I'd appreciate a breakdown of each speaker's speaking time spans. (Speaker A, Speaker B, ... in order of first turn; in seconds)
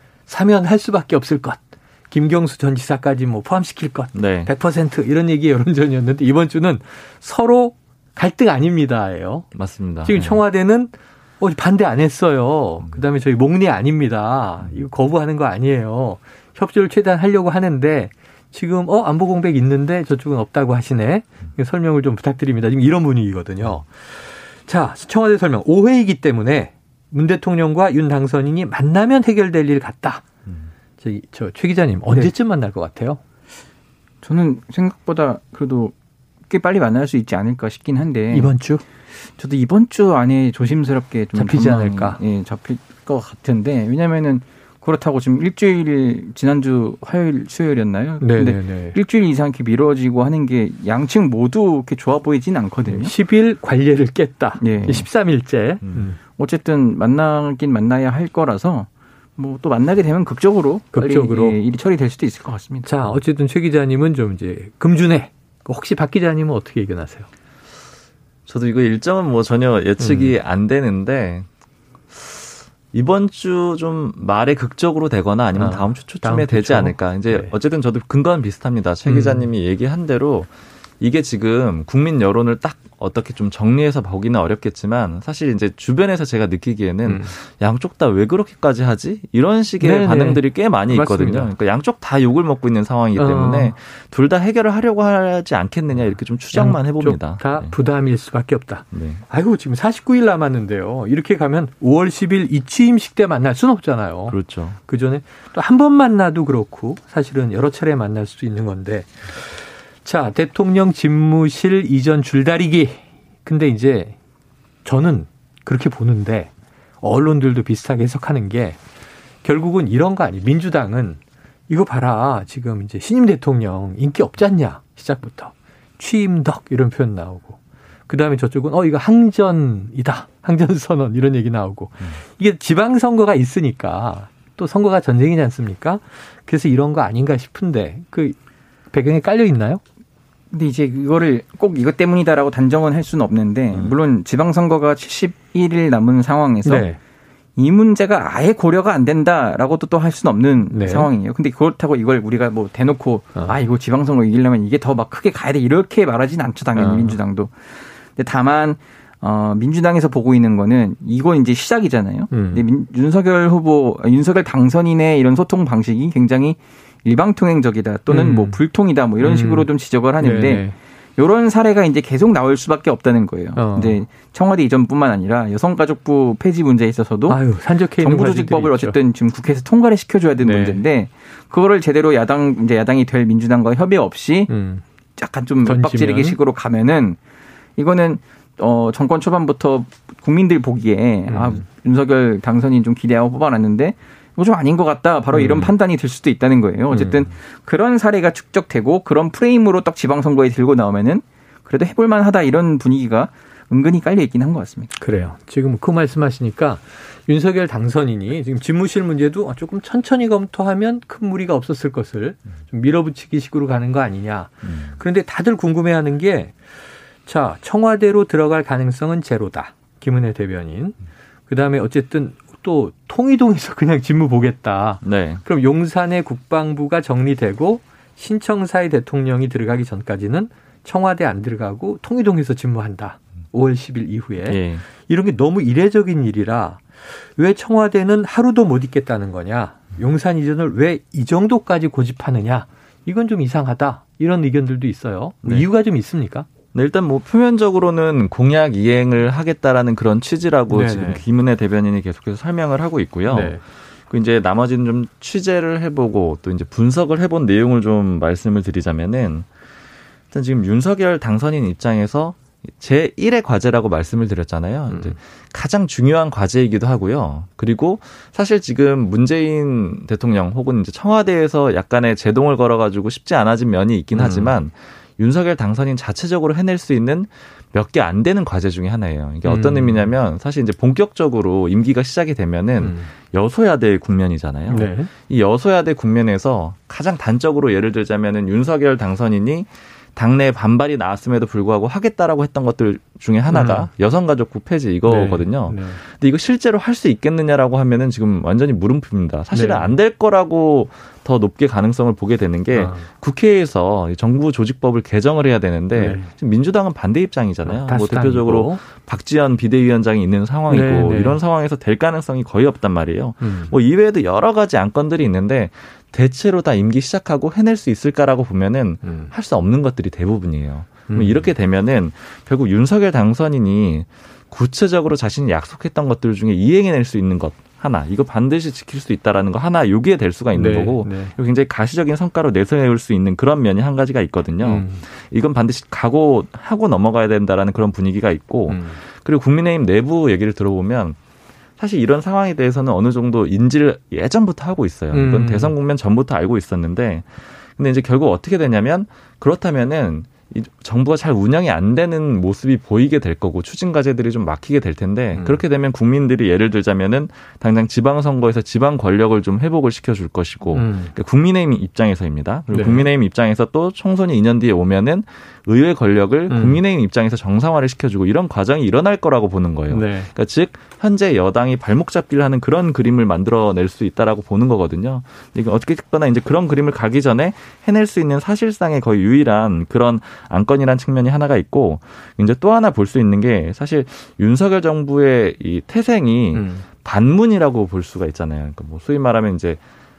Speaker A: 0.3-9.5, 10.0-30.2, 31.0-33.2, 38.3-38.8, 41.3-42.2, 48.2-49.0, 52.9-56.2, 60.9-61.5, 62.8-67.3, 70.0-70.3, 75.5-77.5, 79.0-79.5, 87.0-87.3, 89.8-91.5, 93.2-93.7, 96.5-114.2, 114.8-116.5, 117.0-118.8, 119.4-138.4, 138.9-139.8, 146.6-147.0, 150.7-151.1, 156.8-157.2, 162.3-162.6, 168.1-168.6, 169.2-169.7, 170.2-170.7, 173.5-174.0, 177.3-178.9, 180.4-180.8, 184.5-184.8, 185.6-186.4, 191.3-191.6, 195.3-195.7, 196.9-197.3, 205.0-216.5, 217.2-220.9, 221.5-246.5, 250.7-251.2, 253.3-253.6, 264.9-265.1, 274.1-274.5, 279.4-280.0, 282.8-283.1, 284.7-285.1, 293.5-293.9, 295.1-296.0, 299.5-299.9, 302.7-303.1, 305.9-306.3, 307.6-308.8, 310.7-311.4, 313.4-313.7, 319.0-319.3, 321.1-321.5, 330.5-331.3, 334.6-335.0, 338.7-339.0, 345.1-345.7, 355.3-355.6, 360.7-361.1, 362.7-363.1, 366.5-366.8, 369.9-370.3, 386.5-386.9
Speaker B: 4.1-4.5, 9.5-10.4, 55.8-56.1, 68.5-71.5, 72.1-97.7, 98.9-99.2, 104.3-104.8, 225.0-225.4, 234.5-234.8, 245.4-245.7, 246.7-259.5, 260.3-341.2, 341.8-389.8
Speaker C: 34.2-35.9, 36.5-38.5, 39.4-53.1, 54.6-55.0, 56.4-62.9, 140.5-146.9, 147.6-177.4, 178.0-184.5, 185.2-187.2, 187.8-204.9